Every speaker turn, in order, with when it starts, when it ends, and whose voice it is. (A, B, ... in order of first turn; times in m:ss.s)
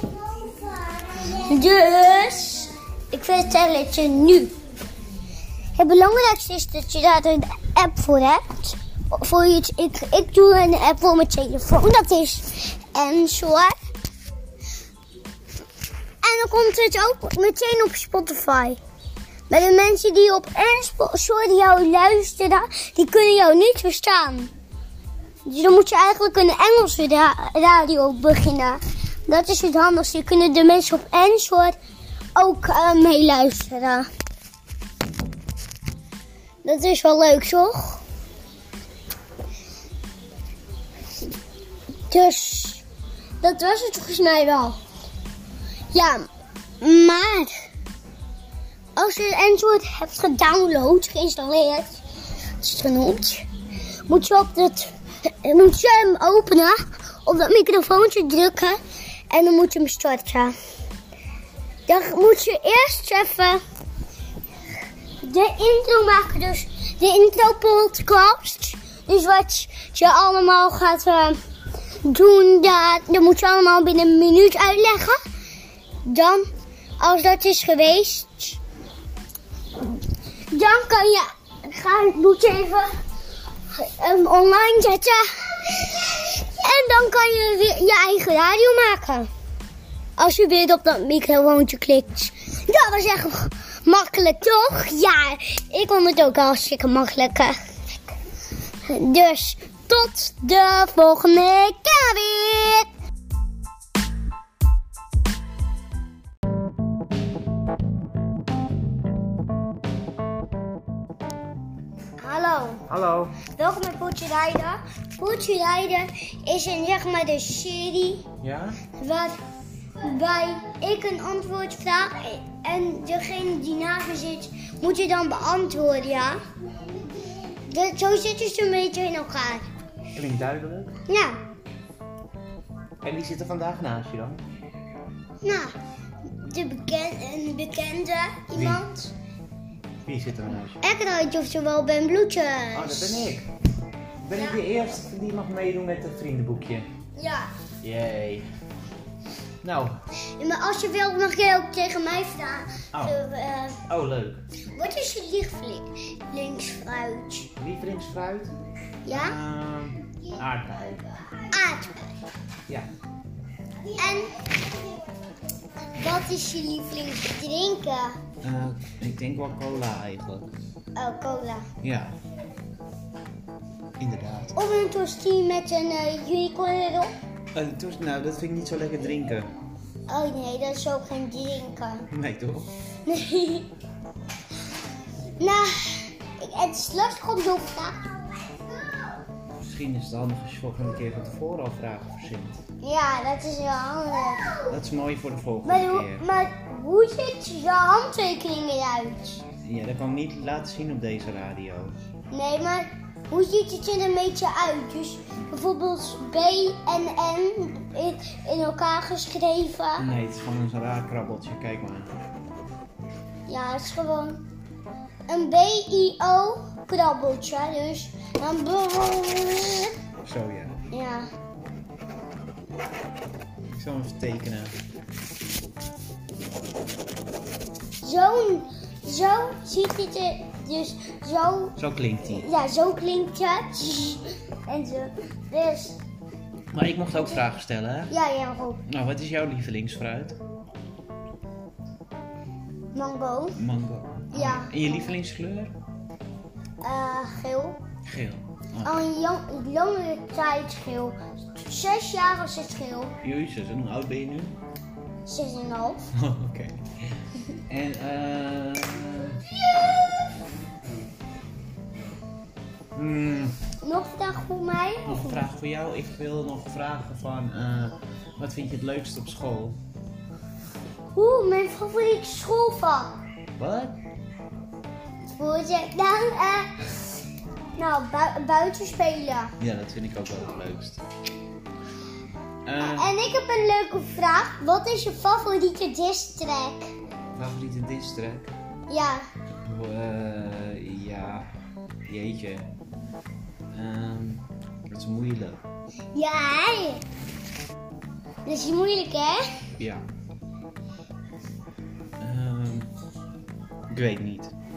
0:00.5-0:04.5 A
0:05.8-0:13.7 A
0:16.2-0:18.8 A
0:19.5-0:24.5 A
0:25.5-0:31.8 A
0:32.3-0:34.1 A
0:36.6-0:38.0 A
0:42.1-0:42.8 A
0:43.4-0:44.8 A
0:45.9-0:46.3 A
0:46.8-0:47.6 A
0:49.0-0:52.0 A
0:52.6-0:53.5 A
0:54.0-1:00.5 A
1:01.9-1:03.6 A
1:05.2-1:11.4 A
1:12.0-1:15.2 A
1:16.0-1:16.5 A
1:17.0-1:18.6 A
1:19.8-1:22.9 A
1:23.7-1:29.3 A
1:30.2-1:37.6 A
1:38.8-1:42.9 A
1:52.2-1:52.8 A
1:52.9-1:53.4 B
1:53.5-1:58.2 A
1:58.4-1:58.8 B
1:58.9-1:59.4 A
2:00.0-2:06.4 A
2:07.6-2:09.7 A
2:10.1-2:11.0 B
2:11.1-2:11.4 A
2:13.0-2:14.4 B
2:15.4-2:15.8 A
2:16.3-2:19.0 A
2:18.5-2:19.1 B
2:20.0-2:20.8 B
2:20.8-2:23.3 A
2:22.7-2:23.5 B
2:24.2-2:26.9 B
2:24.3-2:24.6 A
2:27.2-2:27.5 A
2:27.8-2:28.4 B
2:29.6-2:30.0 B
2:30.4-2:33.8 A
2:33.9-2:34.4 B
2:34.7-2:37.5 A
2:37.6-2:38.5 B
2:39.0-2:39.4 A
2:39.1-2:41.0 B
2:41.5-2:42.1 A
2:43.9-2:44.4 A
2:45.9-2:48.2 A
2:48.4-2:50.5 B
2:50.9-2:51.7 A
2:51.8-2:52.2 B
2:54.0-2:54.5 B
2:54.6-2:57.1 A
2:57.5-2:59.5 B
3:00.1-3:02.0 A
3:02.1-3:02.7 B
3:03.0-3:03.7 A
3:05.4-3:08.2 A
3:09.6-3:12.6 B
3:12.8-3:14.6 A
3:14.7-3:16.2 B
3:15.6-3:19.4 A
3:19.5-3:22.0 B
3:22.3-3:30.1 A
3:30.0-3:32.1 B
3:33.5-3:34.4 A
3:35.3-3:39.9 A
3:40.2-3:40.8 B
3:40.9-3:41.3 A
3:43.7-3:44.8 B
3:48.0-3:56.0 A
3:51.8-3:52.5 B
3:56.7-3:58.1 B
3:58.1-3:58.8 A
3:58.9-4:00.4 B
4:02.9-4:03.6 A
4:03.5-4:05.7 B
4:04.3-4:04.8 A
4:06.8-4:07.8 A
4:08.1-4:09.0 B
4:08.8-4:13.2 A
4:13.2-4:14.6 B
4:15.2-4:16.0 A
4:16.1-4:19.4 B
4:19.6-4:20.4 A
4:22.9-4:23.6 B
4:23.8-4:25.5 A
4:25.0-4:29.8 B
4:31.1-4:33.2 A
4:33.6-4:34.0 B
4:35.2-4:37.1 A
4:37.8-4:39.5 A
4:39.6-4:41.0 B
4:42.6-4:43.1 B
4:42.8-4:46.9 A
4:47.4-4:48.5 B
4:48.9-4:49.2 A
4:49.6-4:51.5 B
4:52.1-4:52.7 B
4:53.7-4:55.6 B
4:56.1-4:57.0 A
4:58.4-4:59.4 A
4:59.8-5:00.0 B
5:02.2-5:02.9 B
5:03.9-5:04.5 B